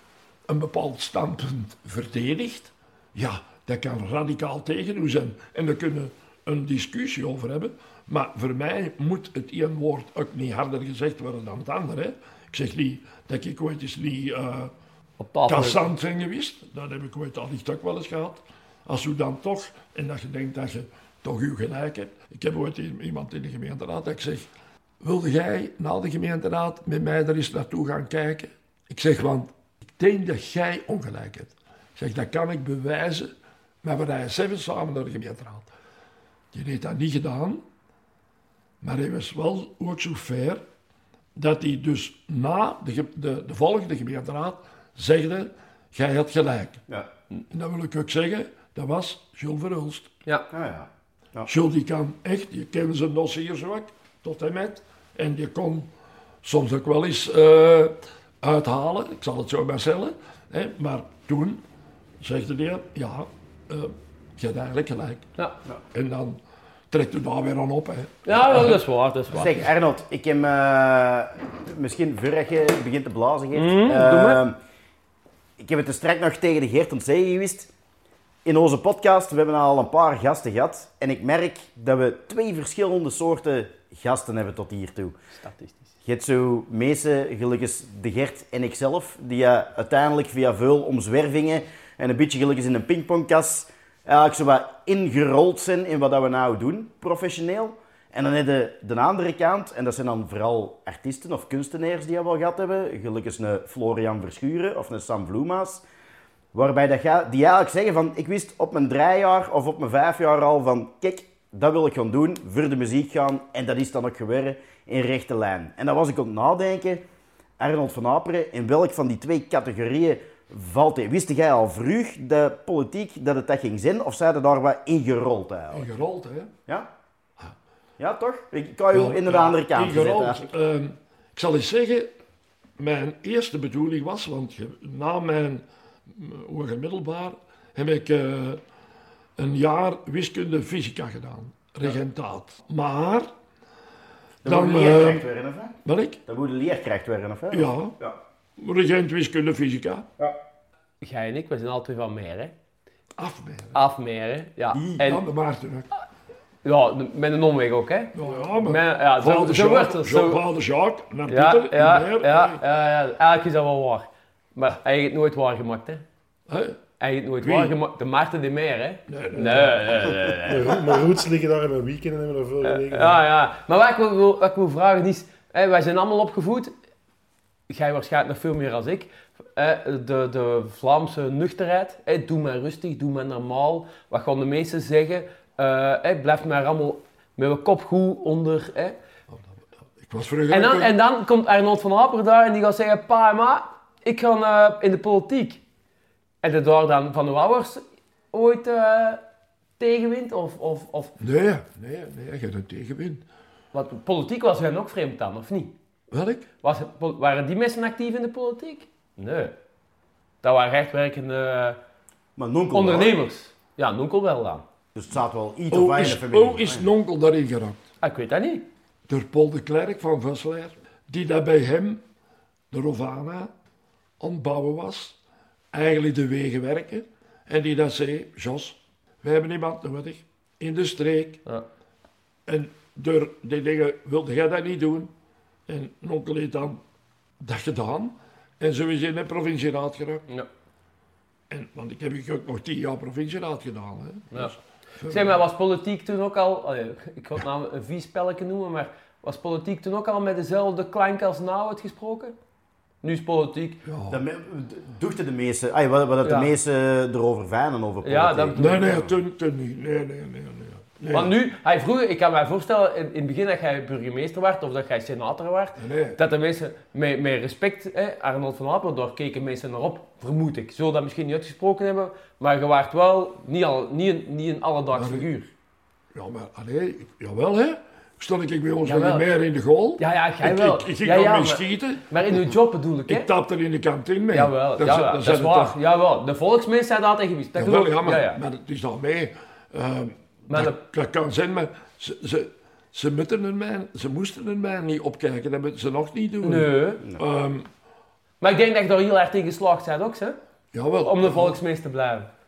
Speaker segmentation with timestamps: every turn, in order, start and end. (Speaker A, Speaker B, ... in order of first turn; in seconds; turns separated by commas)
Speaker A: 0.5-14.7, Speaker B: 15.2-15.8, Speaker A: 15.5-24.5, Speaker A: 25.0-33.3, Speaker A: 33.8-35.7, Speaker A: 36.5-37.6, Speaker A: 38.8-40.6, Speaker A: 41.4-46.8, Speaker A: 47.5-50.1, Speaker C: 50.5-51.5, Speaker A: 51.5-55.9, Speaker A: 56.4-61.6, Speaker A: 62.2-65.3, Speaker A: 65.9-66.4, Speaker A: 66.9-68.8, Speaker B: 68.3-69.6, Speaker C: 69.3-74.5, Speaker B: 73.5-74.4, Speaker C: 75.6-77.7, Speaker C: 78.5-85.2, Speaker B: 85.4-85.9, Speaker C: 86.0-105.8, Speaker C: 106.5-117.0, Speaker C: 117.6-125.9, Speaker A: 125.7-126.5, Speaker C: 128.0-130.5, Speaker A: 128.9-132.1, Speaker A: 132.8-138.6, Speaker A: 139.4-143.3, Speaker C: 144.4-145.8, Speaker A: 144.4-145.3, Speaker A: 145.8-146.2, Speaker C: 146.3-148.2, Speaker A: 147.5-148.0, Speaker A: 148.6-150.1, Speaker B: 151.0-152.6, Speaker A: 153.2-153.8, Speaker B: 153.7-155.2, Speaker C: 154.7-155.0, Speaker A: 155.0-155.9, Speaker B: 156.6-160.4, Speaker A: 158.1-162.6, Speaker B: 161.3-166.0, Speaker A: 166.5-166.8, Speaker B: 167.0-170.8, Speaker A: 167.4-167.8, Speaker A: 169.1-170.4, Speaker D: 170.4-173.2, Speaker B: 172.6-176.7, Speaker B: 177.7-189.0, Speaker A: 190.0-190.9, Speaker B: 190.5-195.6, Speaker B: 196.4-199.2, Speaker B: 199.8-201.2, Speaker A: 201.2-203.2, Speaker B: 203.7-205.8, Speaker A: 206.1-206.5, Speaker B: 206.6-209.6, Speaker B: 210.4-211.8, Speaker C: 212.4-213.2, Speaker B: 212.7-214.7, Speaker C: 214.9-216.8, Speaker A: 215.7-217.8, Speaker B: 218.0-218.7, Speaker A: 219.1-222.0, Speaker A: 222.7-223.5, Speaker A: 224.2-225.2, Speaker A: 225.7-231.4, Speaker A: 232.5-235.1, Speaker A: 235.7-236.8, Speaker A: 237.4-240.3, Speaker A: 241.5-245.4, Speaker B: 245.1-252.4, Speaker B: 253.0-253.8, Speaker A: 253.8-254.2, Speaker C: 254.1-258.7, Speaker B: 256.2-256.5, Speaker B: 258.0-259.1, Speaker A: 258.6-261.4, Speaker B: 261.1-275.5, Speaker A: 265.8-266.2, Speaker A: 274.9-275.3, Speaker A: 276.1-282.6, Speaker B: 278.8-279.3, Speaker B: 280.0-283.3, Speaker A: 283.1-285.8, Speaker B: 284.3-288.4, Speaker A: 287.6-297.7, Speaker B: 290.5-290.8, Speaker B: 296.4-297.0, Speaker B: 298.4-300.4, Speaker A: 300.7-301.6, Speaker B: 301.0-302.3